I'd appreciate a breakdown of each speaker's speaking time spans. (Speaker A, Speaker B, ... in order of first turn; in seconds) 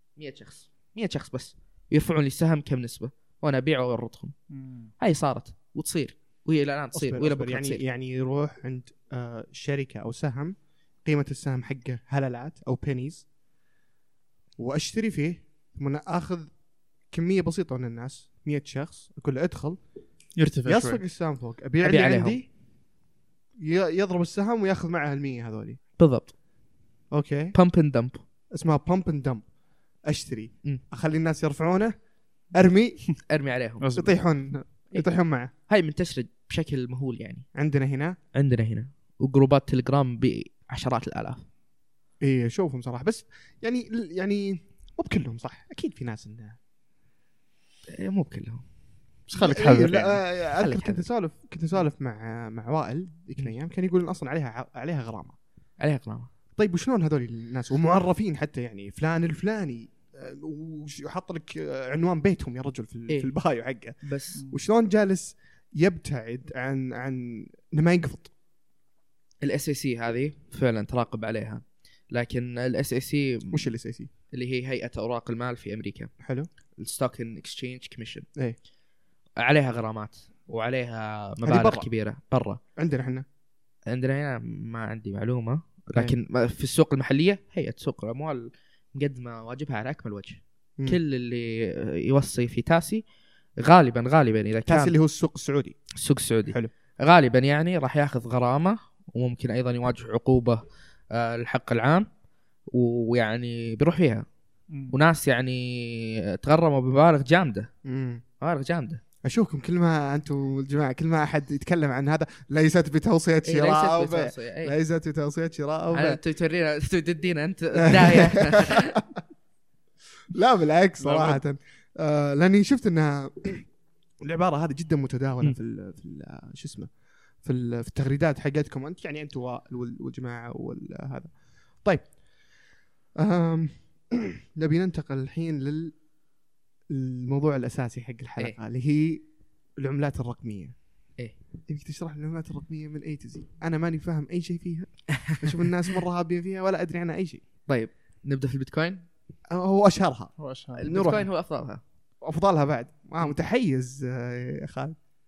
Speaker A: 0.1-4.3, 5.0-7.8, 21.8-22.4, 26.0-26.3, 27.5-28.2, 33.3-33.8, 34.9-37.5, 38.3-41.4, 47.9-48.6, 50.5-51.0, 55.8-56.3, 64.0-64.4, 69.4-73.7, 74.3-76.1, 76.8-78.3, 79.4-82.6, 83.9-93.0, 93.6-94.9, 96.0-102.1, 102.7-104.2, 104.9-107.7, 108.4-109.0, 113.4-114.7, 115.9-119.0, 147.7-149.1, 150.8-151.8
Speaker B: 4.5-4.9, 20.4-21.0, 33.8-34.2, 49.3-50.2, 104.7-104.9, 121.0-121.4, 150.4-150.8
Speaker C: 6.9-13.2, 14.6-16.5, 17.1-19.8, 20.6-22.5, 23.6-25.8, 27.1-27.5, 28.5-29.5, 30.0-31.9, 32.5-33.2, 33.9-35.5, 37.5-38.1, 42.2-46.6, 49.3-55.4, 56.5-68.3, 73.5-74.1, 76.2-76.5, 81.4-81.9, 82.8-83.2, 94.7-95.8, 96.5-96.7, 107.8-108.2, 109.2-116.2, 117.8-119.2, 120.3-123.7, 124.2-132.2, 133.2-136.0, 136.9-140.8, 141.7-147.4, 149.5-151.3, 152.2-154.9